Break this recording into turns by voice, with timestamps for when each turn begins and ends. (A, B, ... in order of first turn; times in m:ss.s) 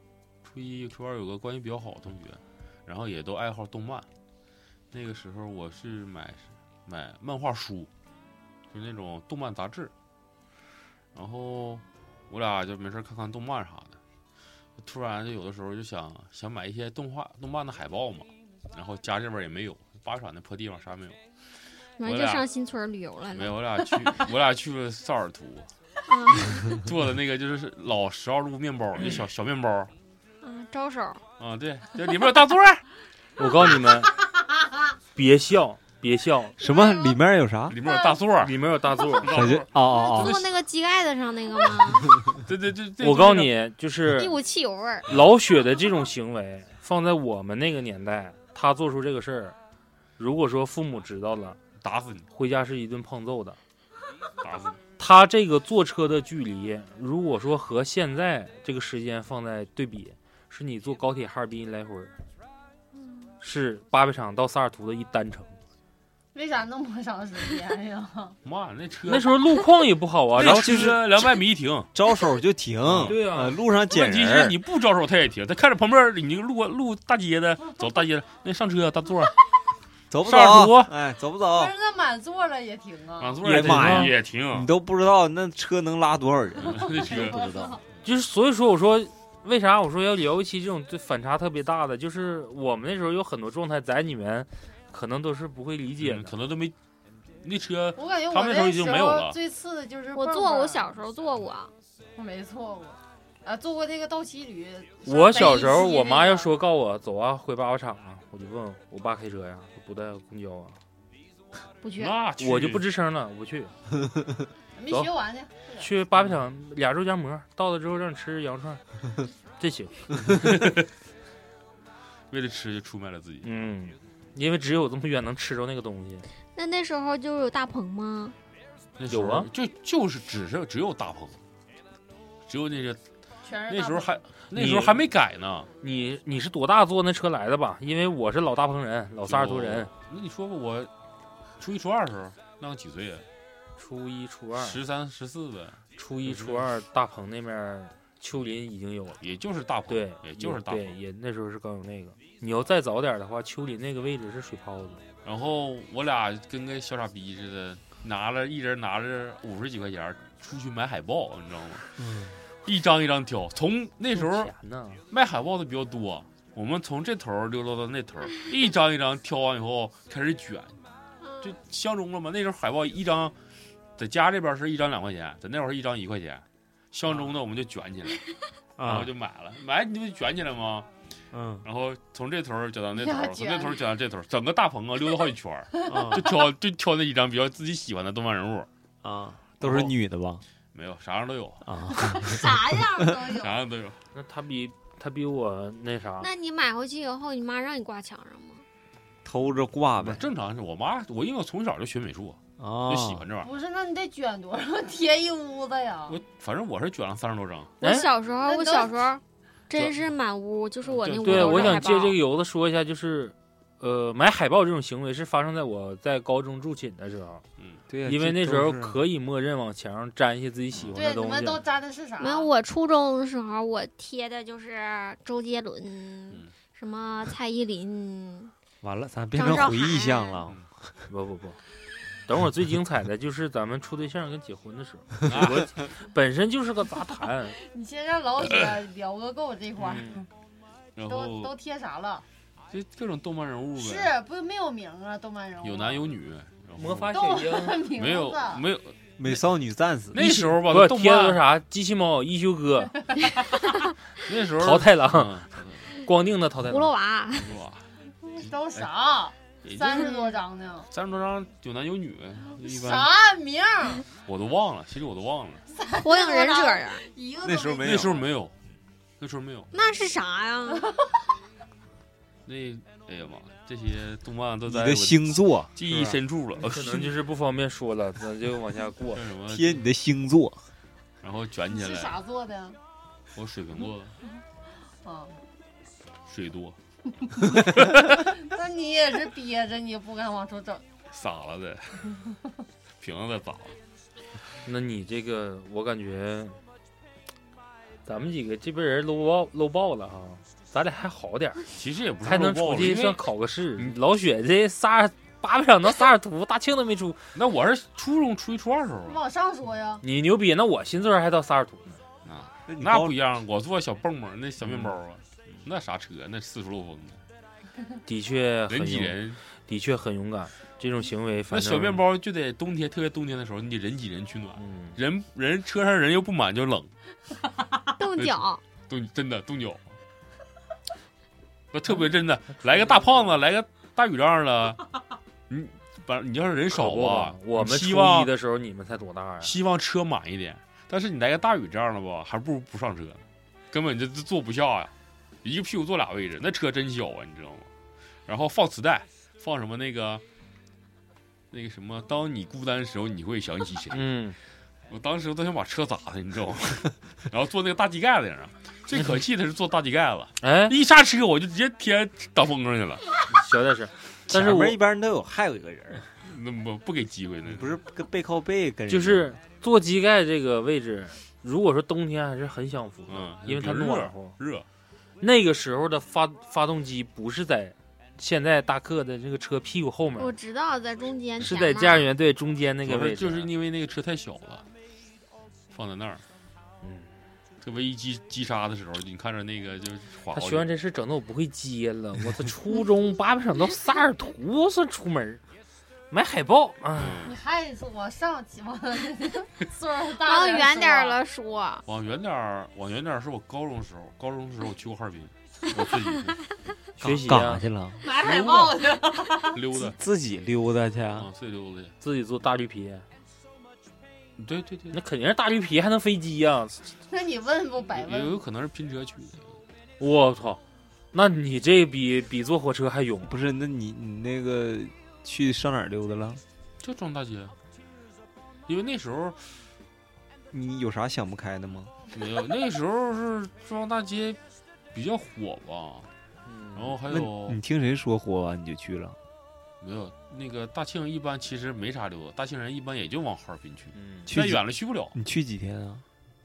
0:00.4-0:04.1 A
0:04.9-0:07.9 A
0:08.7-0:09.9 A
0:11.1-0:14.0 A
0:14.8-0:21.2 A
0:22.0-0:24.1 B
0:22.0-0:22.5 A
0:23.3-0:25.7 A
0:26.1-0:26.8 B
0:26.7-0:29.9 A
0:30.4-0:31.2 B
0:31.4-0:32.8 A
0:33.4-0:34.2 C
0:35.1-0:36.6 C
0:36.6-0:37.8 D
0:36.6-0:37.1 B
0:37.7-0:38.6 A
0:37.9-0:38.1 B
0:38.4-0:39.3 C
0:39.1-0:40.5 A
0:39.3-0:40.4 D
0:39.9-0:42.2 B
0:42.4-0:43.5 A
0:43.0-0:44.3 C
0:44.1-0:45.1 B
0:45.1-0:49.5 C
0:50.2-0:51.6 C
0:51.8-0:52.3 A
0:52.3-0:53.6 C
0:54.4-0:54.8 A
0:55.0-1:02.1 C
1:03.0-1:03.3 B
1:03.4-1:05.5 C
1:06.3-1:08.4 E
1:08.4-1:09.4 A
1:09.1-1:11.0 C
1:10.4-1:11.9 A
1:10.4-1:11.0 D
1:11.9-1:14.6 D
1:12.8-1:13.2 A
1:13.0-1:13.6 C
1:13.9-1:19.3 A
1:20.1-1:21.7 D
1:20.2-1:20.9 A
1:21.5-1:23.4 E
1:23.2-1:24.7 A
1:23.4-1:27.7 D
1:23.5-1:24.1 C
1:26.7-1:27.4 A
1:26.8-1:27.8 E
1:28.0-1:36.3 C
1:36.0-1:36.8 A
1:37.4-1:39.4 A
1:38.0-1:41.0 E
1:40.1-1:41.7 B
1:42.2-1:46.5 E
1:45.0-1:50.8 C
1:45.4-1:45.9 B
1:51.8-1:52.2 B
1:52.0-1:52.9 A
1:52.4-1:53.7 C
1:54.7-1:55.9 E
1:55.8-1:58.8 C
1:59.6-2:00.4 C
2:00.5-2:00.8 A
2:02.3-2:03.5 A
2:03.4-2:06.3 C
2:06.5-2:08.4 B
2:09.0-2:11.4 A
2:09.1-2:09.5 C
2:12.4-2:13.0 A
2:13.4-2:14.2 E
2:13.7-2:15.7 A
2:14.5-2:15.0 C
2:15.8-2:19.9 C
2:19.2-2:20.9 A
2:21.6-2:23.2 A
2:23.8-2:24.8 C
2:24.5-2:26.6 A
2:26.0-2:29.2 C
2:29.2-2:31.0 A
2:29.9-2:35.0 C
2:35.2-2:41.9 A
2:42.0-2:42.4 D
2:42.6-2:44.5 A
2:44.1-2:45.0 C
2:45.1-2:50.8 A
2:51.2-2:51.6 B
2:51.4-2:53.3 A
2:54.0-2:58.2 A
2:58.8-2:59.1 D
2:58.8-3:00.9 A
3:01.3-3:01.6 D
3:01.6-3:08.7 A
3:03.0-3:03.8 E
3:05.9-3:06.3 D
3:09.0-3:10.4 D
3:09.6-3:09.9 A
3:10.7-3:11.6 A
3:11.6-3:12.6 D
3:12.1-3:13.5 E
3:13.3-3:14.0 A
3:14.1-3:16.3 C
3:16.2-3:18.6 B
3:19.2-3:20.3 D
3:20.0-3:23.5 A
3:22.6-3:23.3 D
3:23.4-3:26.2 E
3:26.1-3:27.8 A
3:27.8-3:32.2 B
3:27.8-3:28.1 C
3:28.4-3:29.0 E
3:30.8-3:31.9 A
3:31.2-3:37.4 C
3:37.9-3:39.0 D
3:38.0-3:41.6 C
3:40.9-3:42.5 E
3:42.2-3:48.5 B
3:48.8-3:51.0 D
3:49.3-3:50.4 B
3:51.1-3:51.6 C
3:52.2-3:57.6 C
3:55.2-3:55.7 A
3:57.5-4:00.2 E
3:59.8-4:00.2 C
4:01.0-4:01.5 A
4:01.0-4:02.2 E
4:02.7-4:04.2 A
4:03.8-4:06.1 E
4:05.6-4:07.2 A
4:06.8-4:07.9 C
4:07.1-4:08.6 E
4:07.9-4:09.4 A
4:09.2-4:10.2 D
4:10.1-4:11.4 A
4:10.2-4:13.3 C
4:14.2-4:15.8 A
4:14.6-4:16.9 C
4:16.7-4:17.6 B
4:17.4-4:18.9 A
4:18.2-4:20.9 E
4:19.6-4:20.3 A
4:20.9-4:23.1 A
4:22.5-4:24.0 E
4:24.2-4:25.6 A
4:25.7-4:28.2 E
4:26.0-4:27.0 B
4:27.4-4:28.2 D
4:27.8-4:28.5 A
4:29.2-4:29.7 A
4:29.7-4:30.9 B
4:32.4-4:37.1 A
4:34.6-4:35.8 D
4:36.6-4:39.2 C
4:39.1-4:39.8 A
4:39.5-4:40.6 D
4:41.2-4:42.2 A
4:41.7-4:42.8 E
4:43.3-4:44.2 A
4:44.9-4:45.4 E
4:46.3-4:46.8 A
4:47.2-4:47.5 E
4:48.1-4:50.8 E
4:51.1-4:52.2 A
4:53.0-4:53.8 A
4:54.6-4:56.6 C
4:58.0-5:01.7 C
5:01.7-5:03.2 A
5:02.2-5:07.3 C
5:07.3-5:09.2 A
5:09.1-5:10.0 E
5:10.0-5:12.0 C
5:12.2-5:17.2 A
5:12.7-5:13.1 D
5:18.0-5:22.0 C
5:18.7-5:19.4 A
5:21.5-5:26.9 A
5:24.6-5:25.0 C
5:28.0-5:28.6 B
5:28.1-5:29.8 A
5:31.7-5:34.8 A
5:32.7-5:33.3 C
5:35.5-5:38.3 A
5:36.7-5:39.6 C
5:39.4-5:44.9 A
5:45.4-5:47.7 A
5:48.2-5:50.2 A
5:51.5-5:54.0 A
5:53.9-5:54.4 C
5:54.9-6:03.1 A
6:00.4-6:00.8 C
6:03.3-6:04.8 C
6:04.3-6:06.0 D
6:06.2-6:07.8 A
6:07.4-6:09.3 D
6:08.9-6:14.4 C
6:13.1-6:14.6 A
6:15.2-6:20.4 C
6:20.2-6:22.1 B
6:21.4-6:23.5 C
6:22.8-6:24.6 A
6:25.7-6:26.2 A
6:26.8-6:27.1 C
6:27.6-6:30.7 A
6:30.3-6:35.4 C
6:36.1-6:37.2 C
6:36.9-6:37.4 A
6:37.2-6:41.2 E
6:40.2-6:41.8 B
6:41.8-6:46.4 A
6:47.0-6:47.6 C
6:47.0-6:48.0 D
6:48.0-6:49.5 E
6:48.2-6:48.8 A
6:49.5-6:50.0 A
6:49.8-6:51.3 D
6:51.2-6:51.9 A
6:52.0-6:53.0 C
6:54.4-6:55.0 A
6:54.9-6:56.8 C
6:57.1-6:58.4 E
6:57.9-6:59.6 A
7:00.0-7:00.6 C
7:01.1-7:03.3 C
7:03.2-7:06.4 D
7:06.8-7:07.5 A
7:08.7-7:09.6 A
7:10.5-7:11.9 D
7:12.1-7:14.4 A
7:14.9-7:16.1 A
7:16.4-7:17.0 C
7:16.7-7:17.6 A
7:17.1-7:19.2 D
7:19.8-7:25.1 A
7:23.9-7:24.3 C
7:24.3-7:26.0 D